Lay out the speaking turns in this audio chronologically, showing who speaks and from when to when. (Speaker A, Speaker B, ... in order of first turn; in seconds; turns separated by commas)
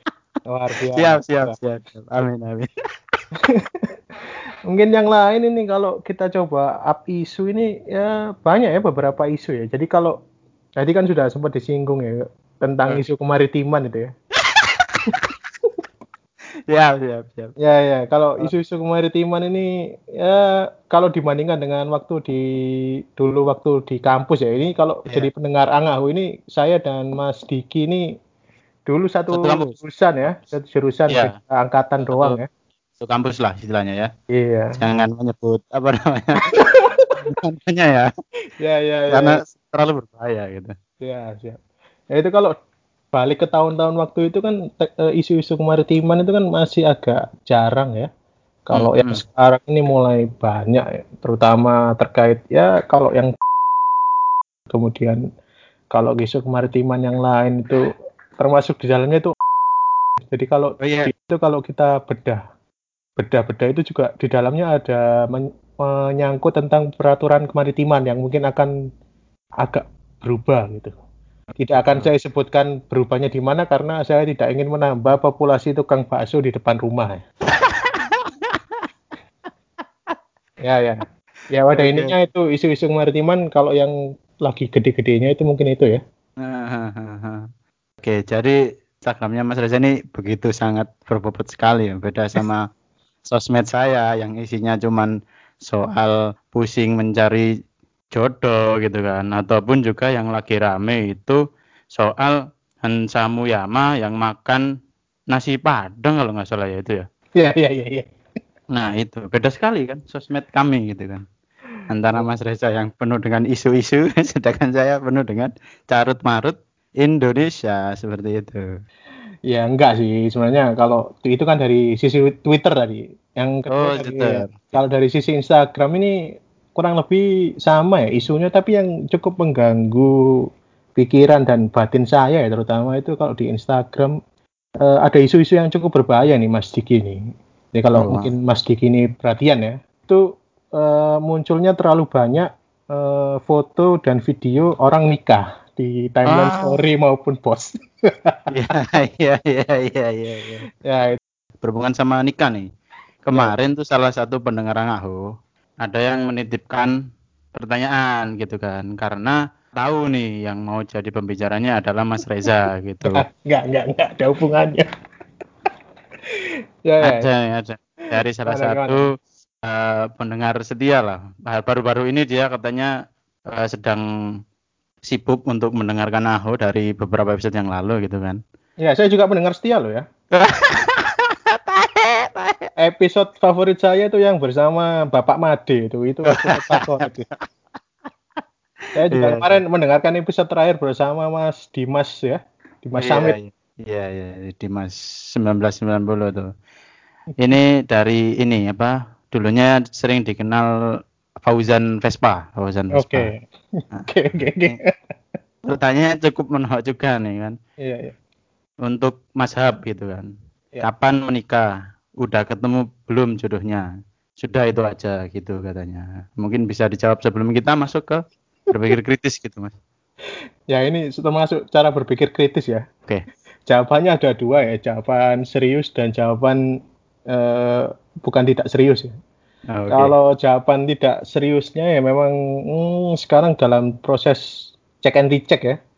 Speaker A: 0.5-1.6, Speaker B: 0.9-2.7, Speaker A: 3.4-3.7, Speaker A: 4.7-10.2, Speaker A: 10.8-14.1, Speaker B: 14.4-15.3, Speaker B: 16.7-17.5, Speaker A: 17.6-22.4, Speaker A: 23.2-28.1, Speaker A: 28.9-32.5, Speaker B: 29.3-29.7, Speaker B: 32.1-32.4, Speaker B: 33.0-34.1, Speaker A: 34.3-34.8, Speaker B: 34.8-38.1, Speaker A: 38.6-39.4, Speaker B: 39.1-40.8, Speaker A: 41.0-41.6, Speaker A: 42.1-42.5, Speaker A: 43.1-48.1, Speaker A: 48.7-53.3, Speaker B: 48.7-49.2, Speaker A: 54.7-55.2, Speaker A: 55.9-57.8, Speaker A: 58.4-59.3, Speaker A: 60.3-62.4, Speaker B: 60.8-61.1, Speaker A: 63.2-68.7, Speaker A: 69.6-70.9, Speaker A: 71.6-77.2, Speaker B: 71.8-72.1, Speaker B: 77.5-78.8, Speaker A: 80.6-86.0, Speaker B: 81.8-82.1, Speaker B: 86.4-87.5, Speaker B: 88.0-92.7, Speaker B: 93.3-95.1, Speaker B: 95.6-97.5, Speaker B: 98.1-101.4, Speaker B: 101.9-104.6, Speaker B: 105.3-107.0, Speaker A: 107.4-108.1, Speaker B: 108.7-111.2, Speaker B: 111.9-118.7, Speaker A: 119.5-126.1, Speaker B: 123.7-124.7, Speaker A: 126.8-130.1, Speaker A: 131.0-134.1, Speaker A: 134.8-137.2, Speaker A: 137.8-140.2, Speaker B: 138.0-138.3, Speaker A: 140.8-148.5, Speaker B: 146.3-146.8, Speaker B: 148.5-150.6, Speaker A: 150.8-151.2, Speaker B: 151.6-152.7, Speaker B: 153.2-155.2, Speaker B: 155.8-156.9, Speaker B: 157.6-163.2, Speaker A: 163.1-164.9, Speaker A: 166.9-167.3, Speaker B: 167.0-169.1, Speaker A: 168.5-169.0, Speaker B: 169.6-172.9, Speaker B: 173.5-174.0, Speaker B: 175.1-178.4, Speaker A: 178.8-180.1, Speaker B: 180.3-182.7, Speaker A: 182.8-187.3, Speaker B: 186.3-187.0, Speaker A: 188.9-193.4, Speaker B: 189.1-189.6, Speaker B: 193.0-196.5, Speaker B: 197.4-200.7, Speaker B: 201.4-203.3, Speaker A: 202.9-204.9, Speaker B: 205.7-207.6, Speaker A: 207.8-208.2, Speaker B: 208.8-210.3, Speaker B: 210.8-211.7, Speaker B: 212.2-213.8, Speaker B: 214.4-218.2, Speaker B: 218.7-219.7, Speaker A: 220.7-222.8, Speaker A: 223.7-226.6, Speaker A: 227.3-229.1, Speaker B: 229.7-230.1, Speaker A: 229.9-235.8